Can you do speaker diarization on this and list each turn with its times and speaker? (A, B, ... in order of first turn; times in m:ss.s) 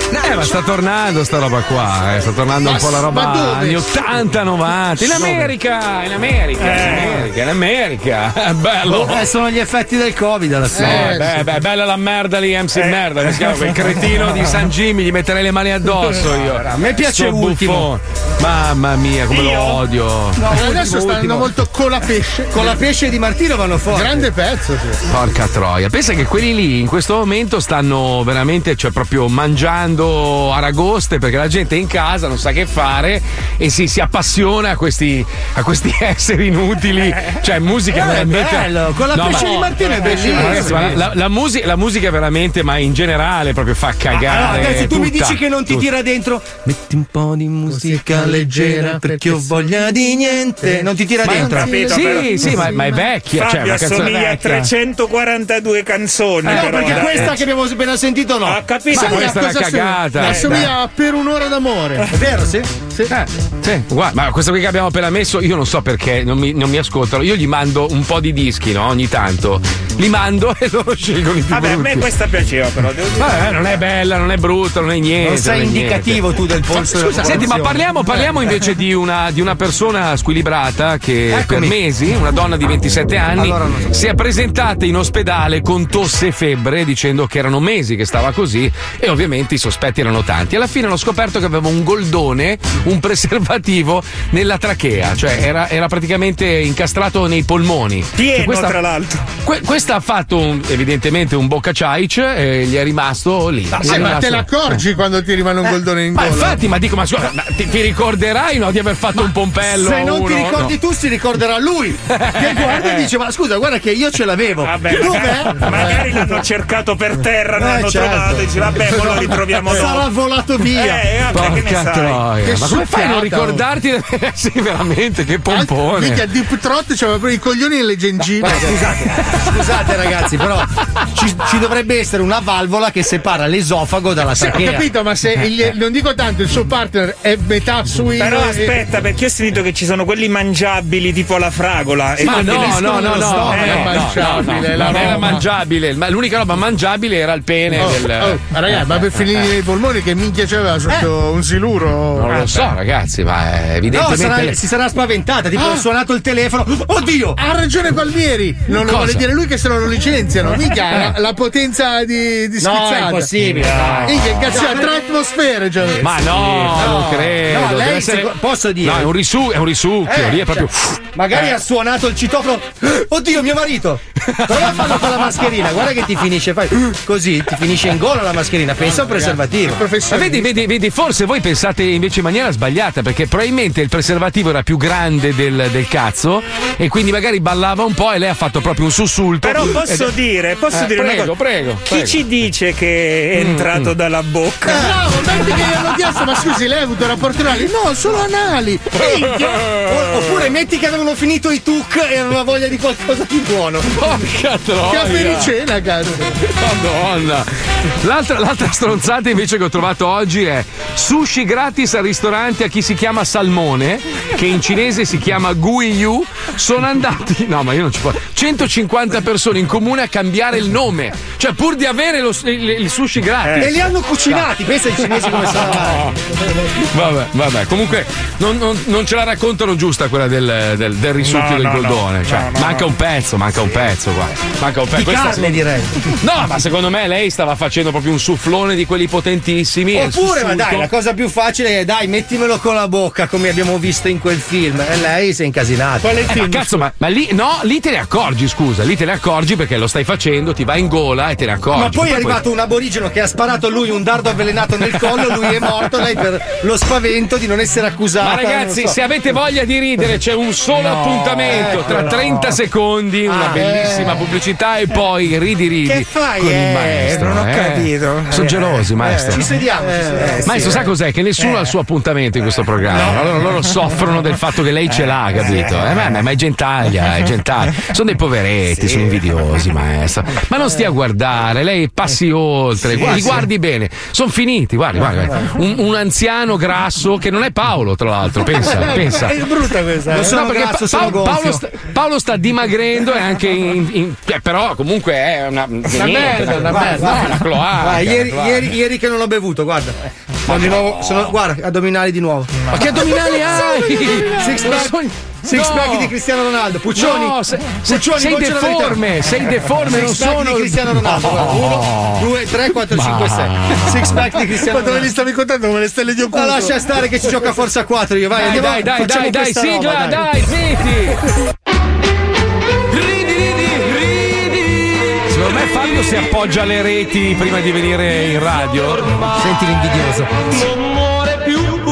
0:00.2-0:09.2 A
0:02.6-0:03.9 B
0:06.6-0:07.2 C
0:08.8-0:11.2 D
0:10.7-0:11.4 B
0:10.8-0:20.4 A
0:12.8-0:13.9 C
0:16.7-0:17.9 D
0:19.3-0:19.8 C
0:20.4-0:21.5 D
0:20.5-0:22.8 B
0:22.5-0:24.3 D
0:23.9-0:25.0 B
0:25.1-0:45.9 A
0:37.9-0:41.0 D
0:39.3-0:40.8 B
0:44.2-0:51.9 D
0:47.7-0:49.5 B
0:50.6-0:52.9 B
0:51.4-0:52.3 C
0:51.8-0:54.7 A
0:53.3-0:57.4 C
0:56.4-0:57.4 A
0:56.5-0:58.7 D
0:58.4-0:59.3 C
0:58.9-1:00.7 A
0:58.9-1:02.1 B
1:02.1-1:02.8 D
1:03.1-1:12.1 A
1:11.5-1:13.5 C
1:13.2-1:38.8 A
1:15.2-1:18.5 D
1:21.3-1:21.8 D
1:23.3-1:24.1 D
1:38.1-1:39.2 C
1:39.4-1:44.5 A
1:43.8-1:46.6 B
1:43.8-1:44.2 D
1:46.1-1:50.7 A
1:49.6-1:55.9 D
1:52.1-1:53.1 A
1:54.6-2:00.1 C
1:55.8-1:56.1 B
1:57.6-2:01.1 D
2:00.7-2:02.2 C
2:01.3-2:06.2 A
2:02.4-2:03.6 B
2:05.5-2:09.0 B
2:08.4-2:14.9 D
2:14.3-2:18.8 B
2:18.2-2:22.8 C
2:22.2-2:29.1 A
2:22.3-2:23.7 D
2:22.7-2:25.4 B
2:23.5-2:23.8 C
2:27.8-2:32.5 B
2:32.2-2:34.6 A
2:33.9-2:37.4 D
2:35.6-2:35.8 B
2:37.4-2:43.3 B
2:38.7-2:39.2 A
2:42.6-2:44.9 D
2:44.0-2:47.3 B
2:46.0-2:51.5 A
2:46.8-2:49.1 D
2:50.0-2:59.9 D
2:54.5-2:55.0 A
2:58.8-3:00.6 B
3:00.1-3:10.1 A
3:09.4-3:11.3 C
3:10.7-3:12.2 A
3:11.8-3:14.8 C
3:13.4-3:13.9 A
3:14.7-3:19.4 B
3:19.0-3:20.3 A
3:19.2-3:23.8 D
3:23.9-3:25.5 A
3:24.8-3:26.2 B
3:26.5-3:27.5 A
3:28.0-3:46.2 A
3:43.4-3:43.7 C
3:43.6-3:46.1 D
3:46.8-3:55.6 A
3:51.2-3:52.9 C
3:54.9-3:56.0 D
3:56.2-4:00.9 A
3:59.9-4:06.3 D
4:06.0-4:06.7 B
4:06.3-4:12.4 A
4:11.7-4:18.9 D
4:18.2-4:29.4 A
4:20.9-4:22.2 D
4:23.3-4:23.9 D
4:25.8-4:27.6 D
4:27.4-4:28.1 C
4:29.1-4:30.9 D
4:30.4-4:49.4 A
4:32.9-4:33.2 D
4:35.4-4:35.9 C
4:42.9-4:43.4 D
4:49.1-4:50.2 B
4:50.0-4:51.6 D
4:50.2-4:58.7 A
4:56.0-4:57.2 B
4:56.5-4:59.9 D
5:00.5-5:01.4 A
5:00.5-5:03.6 D
5:02.7-5:06.1 A
5:04.3-5:09.0 D
5:06.9-5:12.3 A
5:09.8-5:15.1 D
5:12.9-5:14.2 A
5:14.6-5:16.8 B
5:16.3-5:20.2 D
5:18.4-5:21.2 A
5:22.9-5:29.2 A
5:29.3-5:30.7 D